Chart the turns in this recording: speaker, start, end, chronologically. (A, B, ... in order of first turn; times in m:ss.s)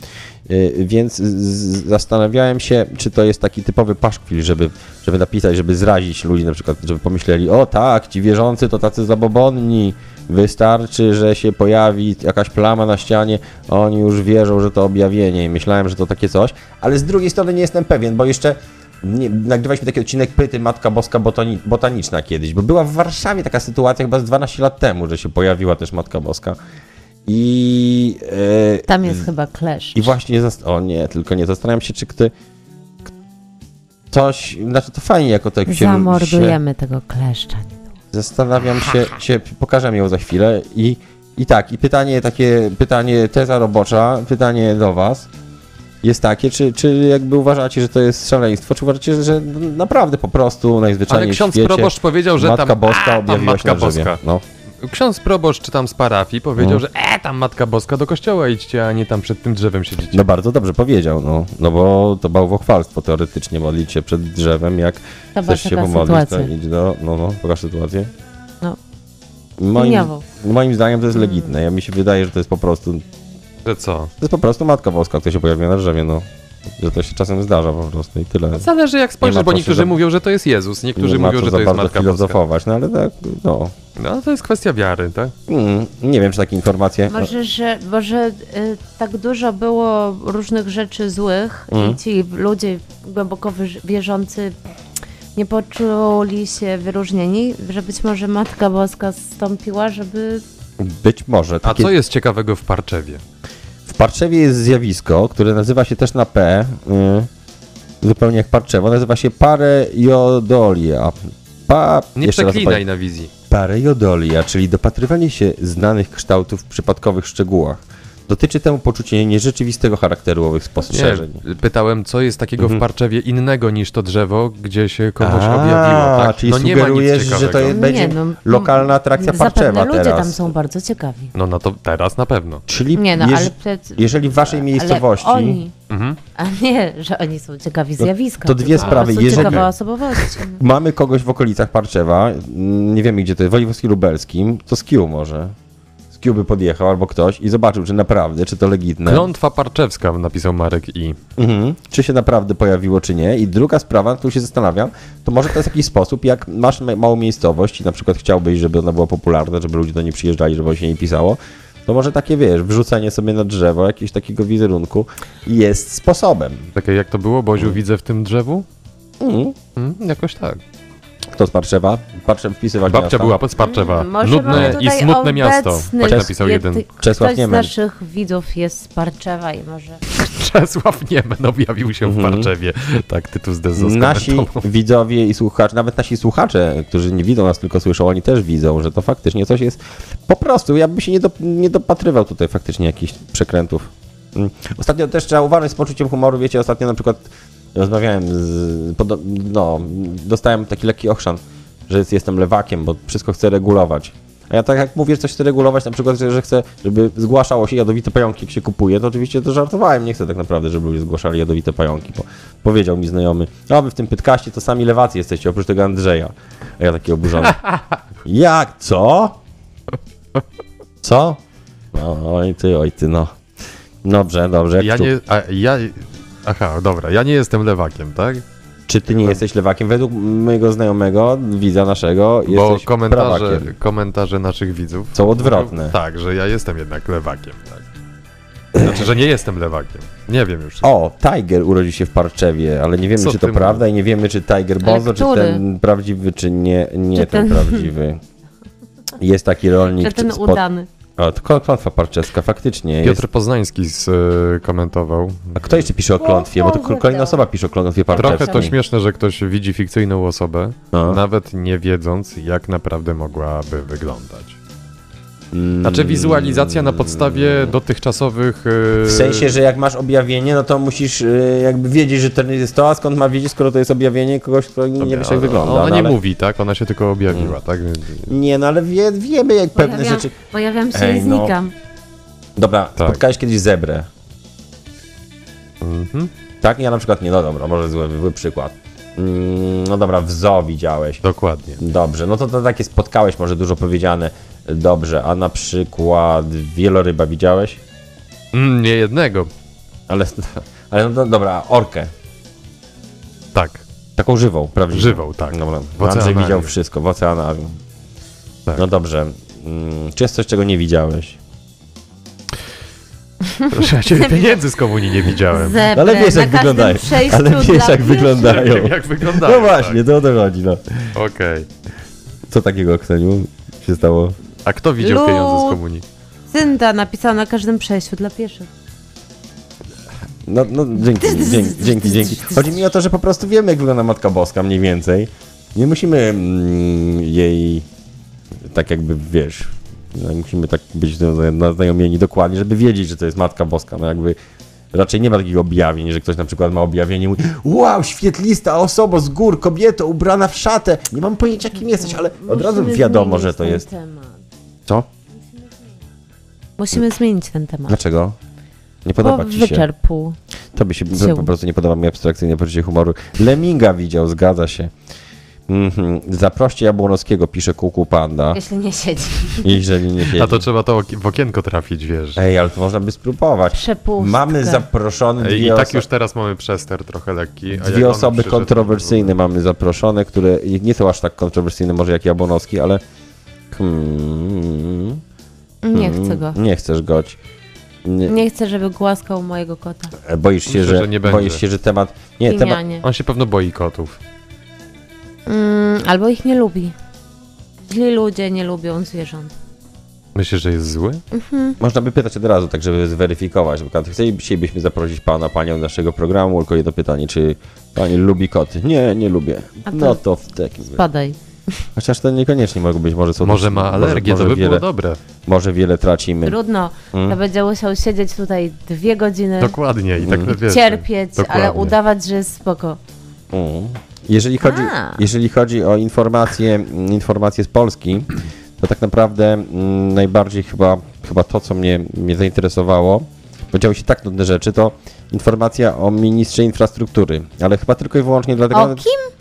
0:00.5-0:26.6 A
0:27.2-0:29.2 A
0:28.9-0:30.1 B
0:29.9-0:32.3 A
0:34.1-0:36.6 A
0:35.6-0:37.9 B
0:38.1-0:45.3 A
0:46.0-0:54.4 A
0:51.1-0:54.2 C
0:54.8-1:00.2 C
0:56.6-0:56.8 A
1:00.1-1:08.1 A
1:05.3-1:06.5 B
1:09.6-1:13.0 A
1:09.8-1:10.2 B
1:13.6-1:14.1 C
1:14.2-1:16.2 A
1:16.8-1:18.7 A
1:18.6-1:22.4 C
1:19.2-1:20.0 A
1:21.0-1:23.7 A
1:24.0-1:25.3 C
1:25.5-1:27.3 A
1:27.1-1:34.5 B
1:31.7-1:32.0 A
1:35.3-1:40.4 B
1:40.8-1:41.9 A
1:41.6-1:43.2 C
1:43.8-1:47.3 A
1:48.0-1:52.8 A
1:52.2-1:53.3 C
1:53.5-2:01.4 A
2:00.9-2:07.8 C
2:02.6-2:02.8 A
2:05.2-2:10.5 A
2:07.6-2:11.3 B
2:11.3-2:12.6 C
2:12.7-2:15.6 A
2:12.9-2:15.7 B
2:15.9-2:16.2 C
2:16.4-2:20.6 B
2:18.4-2:19.7 A
2:18.8-2:19.7 C
2:20.4-2:25.5 A
2:26.1-2:29.3 A
2:29.0-2:31.2 C
2:31.4-2:46.7 A
2:46.8-2:48.6 C
2:49.2-2:49.6 A
2:49.8-2:50.6 C
2:51.3-2:53.4 A
2:52.9-2:56.8 C
2:53.6-3:00.0 B
2:54.5-2:54.8 A
2:56.0-2:56.3 A
2:56.9-2:57.7 A
3:00.1-3:04.6 C
3:02.0-3:02.5 A
3:03.8-3:37.6 A
3:37.4-3:37.8 C
3:38.2-3:39.4 A
3:41.0-3:41.4 A
3:41.9-3:43.3 A
3:44.0-3:45.1 A
3:44.8-3:48.4 C
3:48.9-3:53.7 A
3:52.5-3:57.8 C
3:55.1-3:56.0 A
3:58.7-3:59.0 A
3:58.8-4:00.9 C
4:00.8-4:08.2 A
4:03.2-4:03.8 C
4:04.8-4:05.6 B
4:07.1-4:07.9 B
4:09.2-4:10.6 A
4:10.0-4:10.9 B
4:11.2-4:13.2 A
4:13.0-4:15.8 C
4:15.6-4:18.8 A
4:16.2-4:17.4 B
4:18.1-4:24.6 C
4:18.2-4:18.7 B
4:20.9-4:21.2 A
4:25.5-4:27.7 A
4:25.8-4:29.6 C
4:29.0-4:36.2 A
4:35.0-4:38.3 C
4:37.3-4:37.6 A
4:38.2-4:40.3 A
4:39.8-4:41.7 B
4:40.9-4:41.6 A
4:42.6-4:44.1 A
4:45.8-4:46.3 C
4:46.6-4:51.2 A
4:51.2-4:51.8 C
4:51.8-4:57.8 A
4:58.5-4:59.5 C
5:00.1-5:02.1 A
5:03.5-5:03.8 C
5:04.2-5:07.8 A
5:04.9-5:06.7 C
5:08.7-5:11.4 A
5:13.4-5:14.6 B
5:13.7-5:15.8 C
5:15.5-5:18.7 B
5:15.8-5:21.1 A
5:18.3-5:20.0 C
5:21.1-5:21.7 C
5:22.5-5:24.4 A
5:24.6-5:26.0 C
5:25.0-5:25.8 B
5:26.5-5:28.7 B
5:30.4-5:37.8 A
5:31.1-5:32.7 B
5:38.6-5:44.4 A
5:44.9-5:53.8 A
5:51.9-5:54.4 B
5:56.8-5:58.0 B
5:57.9-5:58.4 A
5:59.0-5:59.9 A
5:59.2-6:00.4 B
6:00.7-6:04.9 A
6:01.1-6:01.5 B
6:05.7-6:08.6 A
6:08.5-6:09.8 B
6:09.6-6:10.6 A
6:10.3-6:12.4 C
6:12.4-6:16.0 A
6:13.7-6:14.8 B
6:15.4-6:19.3 C
6:17.7-6:23.0 A
6:23.7-6:25.2 A
6:25.8-6:26.6 B
6:25.9-6:27.4 A
6:28.0-6:28.4 A
6:28.2-6:30.1 B
6:30.2-6:32.8 A
6:30.7-6:31.6 C
6:32.5-6:33.0 B
6:33.0-6:34.2 C
6:35.4-6:36.9 B
6:37.9-6:39.5 B
6:40.3-6:41.2 C
6:41.3-6:41.8 B
6:41.8-6:51.0 A
6:49.8-6:50.2 B
6:50.9-6:51.4 B
6:52.0-6:54.8 A
6:53.4-6:55.2 C
6:55.4-6:56.6 A
6:56.4-6:59.8 B
6:59.6-7:02.0 C
7:00.2-7:00.6 A
7:00.5-7:03.0 B
7:03.5-7:19.0 A
7:04.6-7:05.2 B
7:18.7-7:19.3 B